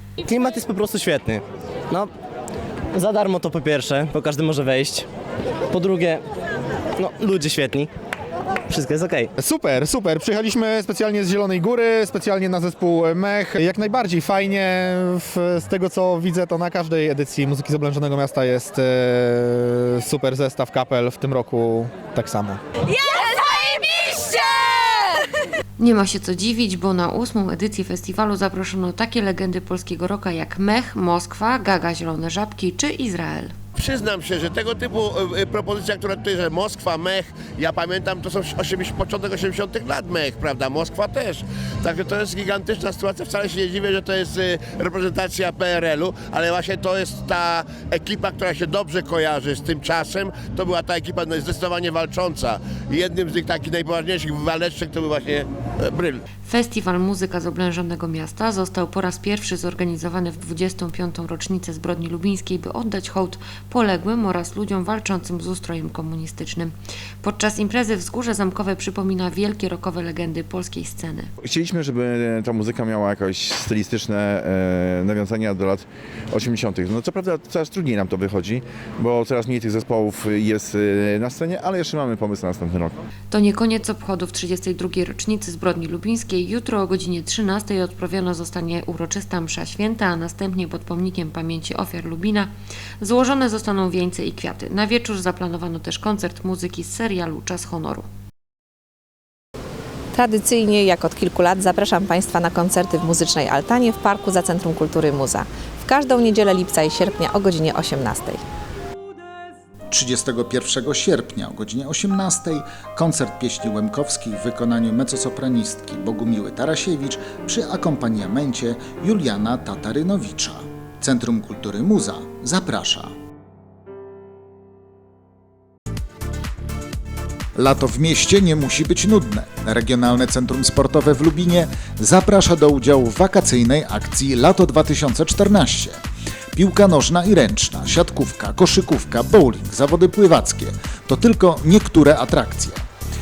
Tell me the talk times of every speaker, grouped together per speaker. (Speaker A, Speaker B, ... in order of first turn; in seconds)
Speaker A: 0.3-2.1, 2.9-5.1, 5.7-6.2, 7.0-7.9, 8.7-9.3
Speaker B: 9.4-22.6
Speaker C: 25.8-33.5, 56.4-71.3, 83.3-98.1
Speaker D: 33.7-56.2
Speaker E: 71.4-83.0
Speaker F: 100.1-108.4
Speaker G: 109.9-123.1, 127.5-136.0, 136.5-142.8